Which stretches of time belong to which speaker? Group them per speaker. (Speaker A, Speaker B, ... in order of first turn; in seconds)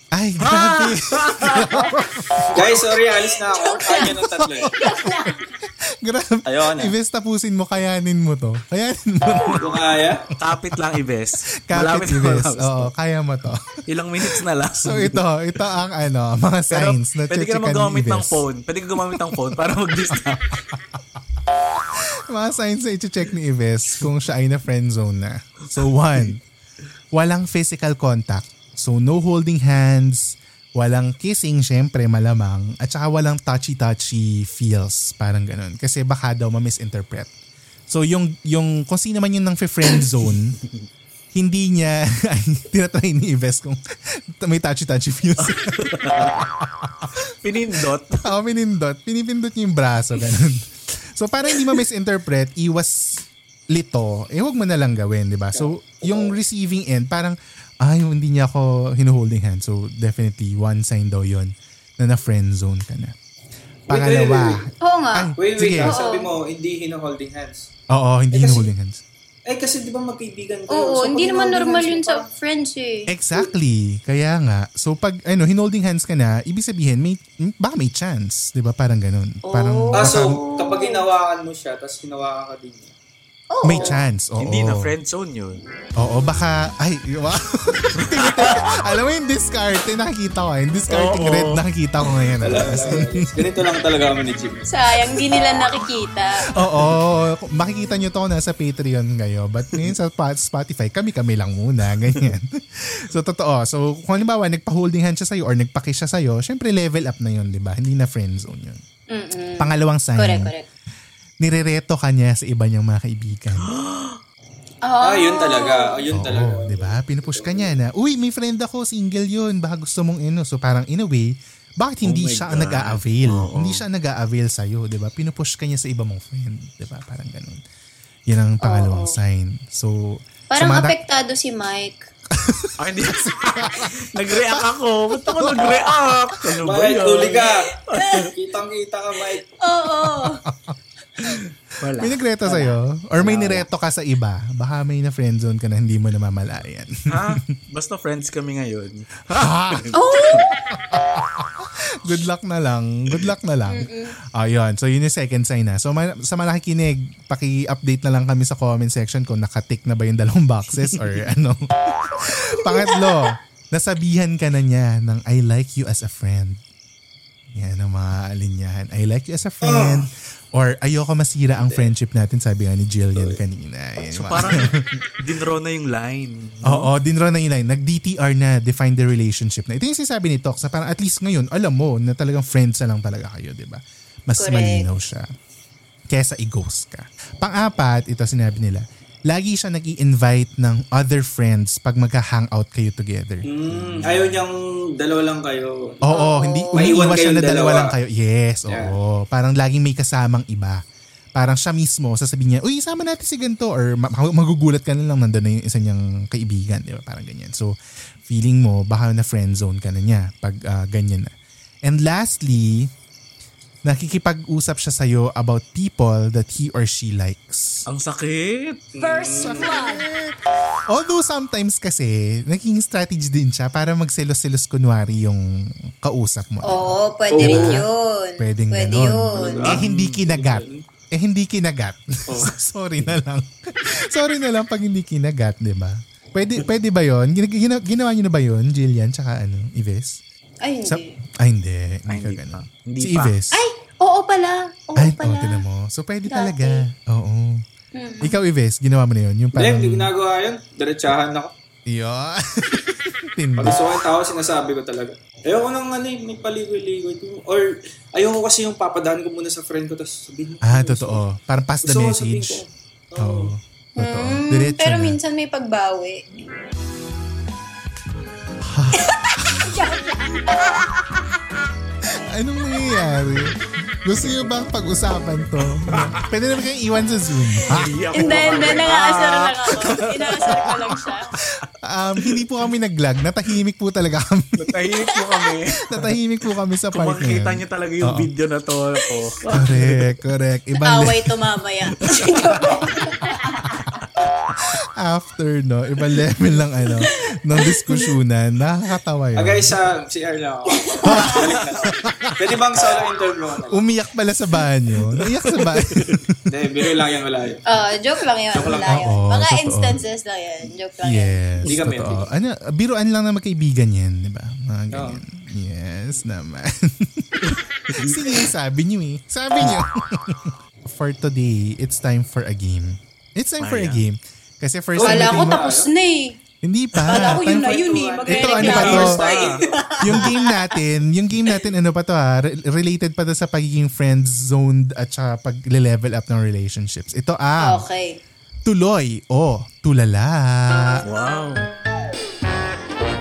Speaker A: 0.1-2.8, 4.2-5.3, 5.9-9.9, 11.7-13.6, 14.3-18.5, 19.1-19.4, 20.1-21.0, 21.7-26.4, 27.1-37.3, 37.9-40.6, 41.3-43.8, 44.4-47.1, 48.2-63.2, 63.9-66.0, 67.9-69.0, 73.1-80.4, 83.6-84.9, 86.0-93.5, 96.5-108.8, 109.6-110.5, 111.4-113.7, 116.1-127.6, 128.3-131.0, 132.4-136.2, 140.5-140.8, 142.0-147.4, 149.3-166.6, 167.5-175.0, 176.7-185.3, 186.1-194.4, 196.1-200.8, 201.3-211.3, 211.8-212.9, 213.8-217.8, 219.4-220.4, 220.9-227.9, 228.4-240.2, 240.9-243.6, 245.0-247.6, 248.2-250.1, 251.9-253.8, 260.6-262.6, 263.2-265.2, 268.6-269.8, 272.3-277.9, 281.8-284.8, 285.8-288.3, 289.5-291.3, 295.0-299.8, 301.1-302.5, 303.7-306.4, 308.9-310.0, 311.0-325.6, 326.6-329.2, 330.0-337.8, 338.6-341.0
Speaker B: 0.4-1.7, 10.4-12.9, 13.9-15.2, 16.7-20.6, 45.4-46.4, 47.4-48.3, 84.4-85.6, 88.0-88.5, 90.9-91.6, 113.6-114.2, 122.0-123.8, 132.8-138.2, 141.2-142.2, 143.2-143.7, 147.1-150.4, 160.8-161.2, 174.1-176.9, 217.9-218.8, 229.9-230.1, 242.1-243.3, 275.9-276.2, 277.7-281.0, 282.2-282.4, 284.6-286.2, 286.9-290.1, 292.1-292.5, 305.2-306.2, 317.4-318.2, 323.6-324.0, 341.0-341.7
Speaker C: 2.5-4.8, 6.5-6.9, 9.6-10.2, 55.5-56.3, 63.9-64.7, 65.4-67.7, 68.3-68.7, 69.5-72.3, 80.0-82.9, 92.4-94.7, 115.0-117.8, 136.6-137.7, 138.3-139.4, 169.6-170.1, 171.6-171.9, 193.5-196.0, 196.7-197.9, 198.7-198.9, 218.9-219.7, 227.3-227.9, 229.3-230.8, 249.6-251.5, 253.6-261.2, 261.8-263.5, 299.4-303.8, 306.5-307.6, 308.5-309.0, 311.7-312.3, 314.9-315.2, 325.0-325.9, 327.2-329.6
Speaker D: 3.1-4.2, 4.8-5.5, 64.8-66.3, 70.7-73.1, 79.5-81.0, 83.5-84.0, 94.7-96.5, 109.1-110.7, 114.8-116.0, 128.6-129.2, 130.5-132.0, 137.9-138.3, 139.5-140.4, 149.9-150.5, 153.7-154.2, 162.6-163.0, 184.4-184.9, 196.1-196.9, 219.0-220.0, 226.6-229.7, 240.6-241.1, 243.5-245.6, 246.3-246.8, 248.0-248.4, 264.0-266.3, 269.0-270.9, 278.1-281.3, 285.1-285.4, 290.8-293.6, 297.6-298.1, 300.7-301.4, 307.7-311.4, 325.0-326.4, 327.1-330.6, 337.6-338.2